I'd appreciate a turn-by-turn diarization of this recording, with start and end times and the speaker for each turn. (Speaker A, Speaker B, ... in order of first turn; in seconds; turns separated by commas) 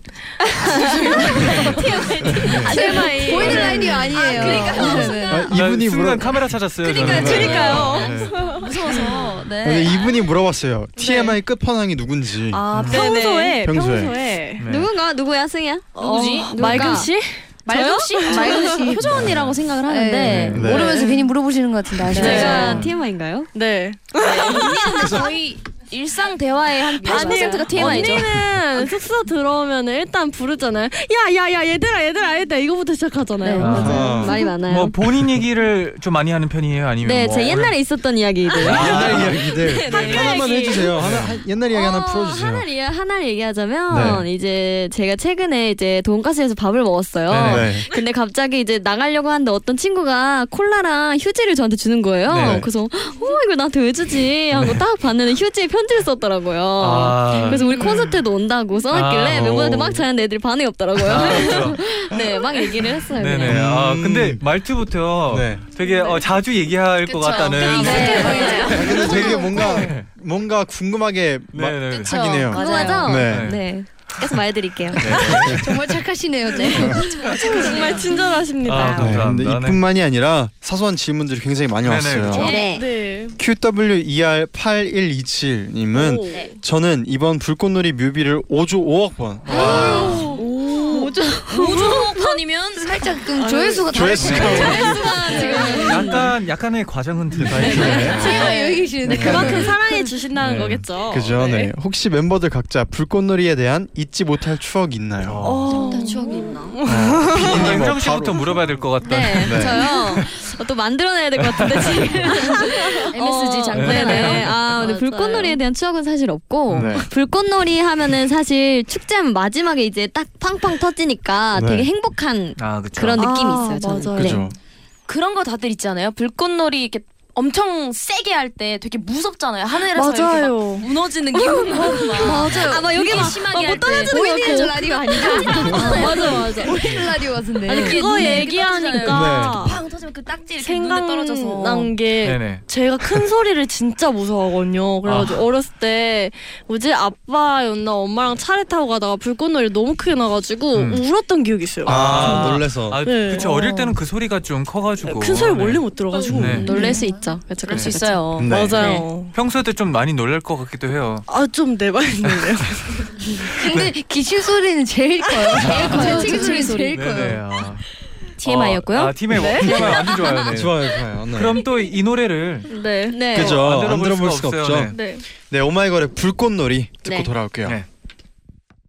Speaker A: 0.9-5.2, Speaker B: 1.3-1.7, Speaker C: 1.6-5.3, Speaker D: 1.7-3.6, Speaker E: 2.4-2.8, Speaker B: 2.7-5.5, Speaker E: 3.4-3.8, Speaker D: 4.2-5.2, Speaker E: 5.3-8.4, Speaker F: 5.5-8.1, Speaker A: 6.8-9.4, Speaker C: 7.0-7.8, Speaker C: 8.6-10.1, Speaker E: 9.6-12.7, Speaker A: 11.0-11.3, Speaker C: 12.5-12.9, Speaker A: 12.7-14.6, Speaker F: 12.7-13.0, Speaker D: 12.9-13.6, Speaker E: 13.6-14.2, Speaker F: 14.6-14.9, Speaker D: 14.6-17.1, Speaker A: 16.0-19.0, Speaker C: 16.0-17.1, Speaker B: 17.7-19.1, Speaker C: 17.8-20.3, Speaker F: 19.1-19.5, Speaker B: 19.8-22.8, Speaker D: 20.0-20.8, Speaker F: 20.2-20.7, Speaker E: 20.5-20.9, Speaker A: 20.7-21.3, Speaker A: 22.1-22.8, Speaker D: 22.1-23.5, Speaker C: 22.2-22.7, Speaker F: 22.6-22.9, Speaker A: 23.5-25.3, Speaker C: 24.2-28.4, Speaker D: 24.4-24.6, Speaker E: 25.0-25.3, Speaker D: 26.9-28.3, Speaker A: 27.0-34.4, Speaker D: 33.5-35.0, Speaker F: 33.6-37.8, Speaker E: 33.8-34.4, Speaker D: 37.0-40.8, Speaker F: 38.6-40.3, Speaker E: 38.6-42.7, Speaker A: 38.7-40.9, Speaker F: 41.0-41.4, Speaker D: 41.7-63.6, Speaker E: 43.9-44.3, Speaker F: 47.3-47.7, Speaker E: 47.4-47.9, Speaker F: 52.3-52.6, Speaker F: 54.5-54.8, Speaker F: 56.8-57.6, Speaker A: 57.5-58.2, Speaker F: 58.9-59.9, Speaker F: 61.0-61.8, Speaker F: 63.1-70.1, Speaker E: 63.5-64.4, Speaker E: 65.3-65.7, Speaker A: 65.9-66.2, Speaker D: 67.3-68.8, Speaker A: 67.3-68.7, Speaker B: 67.6-69.7, Speaker C: 67.7-69.0, Speaker E: 68.7-73.6, Speaker F: 71.5-72.3, Speaker B: 72.0-73.1, Speaker D: 72.5-75.3, Speaker C: 72.6-73.0, Speaker F: 73.1-73.6, Speaker E: 75.0-75.7, Speaker F: 75.0-75.6, Speaker B: 75.4-78.1, Speaker C: 76.6-77.1, Speaker A: 77.2-79.2, Speaker C: 77.7-78.0, Speaker F: 78.6-79.8, Speaker E: 78.9-82.6, Speaker F: 81.8-82.5, Speaker A: 82.3-83.4, Speaker D: 82.3-82.9, Speaker E: 83.4-90.3, Speaker A: 85.9-86.5, Speaker F: 89.5-90.4, Speaker A: 89.5-92.3, Speaker C: 90.4-93.0, Speaker B: 90.9-91.7, Speaker B: 92.8-96.2, Speaker A: 93.4-96.3, Speaker E: 93.9-95.5, Speaker F: 94.2-94.8, Speaker C: 94.5-95.9, Speaker D: 94.7-96.0, Speaker F: 95.8-98.3, Speaker E: 97.4-98.5, Speaker A: 97.5-101.7, Speaker B: 97.9-100.1, Speaker F: 99.0-99.7, Speaker E: 99.1-99.7, Speaker F: 100.4-100.8, Speaker E: 100.5-105.4, Speaker F: 105.2-105.9, Speaker A: 105.4-107.6, Speaker C: 105.8-106.7, Speaker B: 105.9-106.2, Speaker D: 105.9-106.7, Speaker E: 106.8-108.6, Speaker F: 107.2-110.3, Speaker D: 109.0-124.4, Speaker E: 109.4-109.8, Speaker F: 111.4-112.3, Speaker C: 113.2-114.4, Speaker F: 113.7-114.5, Speaker A: 113.8-115.6, Speaker F: 116.7-117.0, Speaker E: 116.7-117.1, Speaker E: 121.5-121.9, Speaker F: 122.6-123.2, Speaker A: 123.2-124.5, Speaker E: 124.2-124.6, Speaker C: 125.1-136.7, Speaker A: 129.9-130.9, Speaker D: 131.3-136.4, Speaker A: 131.4-133.3, Speaker B: 131.7-132.4, Speaker B: 134.1-138.5, Speaker A: 134.1-134.7, Speaker A: 135.2-137.1, Speaker A: 137.7-139.9, Speaker C: 137.7-141.9, Speaker D: 137.7-139.2, Speaker E: 139.1-139.7, Speaker A: 140.6-154.0, Speaker F: 142.2-143.2, Speaker F: 145.1-145.5, Speaker F: 150.7-151.0, Speaker F: 151.8-156.7, Speaker E: 151.8-153.0, Speaker A: 155.0-159.3, Speaker E: 156.3-156.7, Speaker C: 156.7-158.6, Speaker D: 156.7-157.2, Speaker F: 157.7-158.0, Speaker E: 158.4-158.9, Speaker D: 158.8-159.1, Speaker F: 159.3-161.3, Speaker A: 161.3-163.5, Speaker F: 162.3-162.6, Speaker B: 163.4-167.4, Speaker F: 165.5-167.8, Speaker C: 165.8-167.0, Speaker D: 166.0-166.8, Speaker A: 166.1-166.6, Speaker F: 168.4-172.7, Speaker D: 168.4-168.8, Speaker C: 168.4-169.1, Speaker A: 169.3-170.2, Speaker E: 170.4-171.6, Speaker A: 172.7-173.2, Speaker D: 173.1-173.6, Speaker E: 173.3-177.8, Speaker F: 173.3-175.0, Speaker A: 174.9-175.3, Speaker D: 177.1-177.3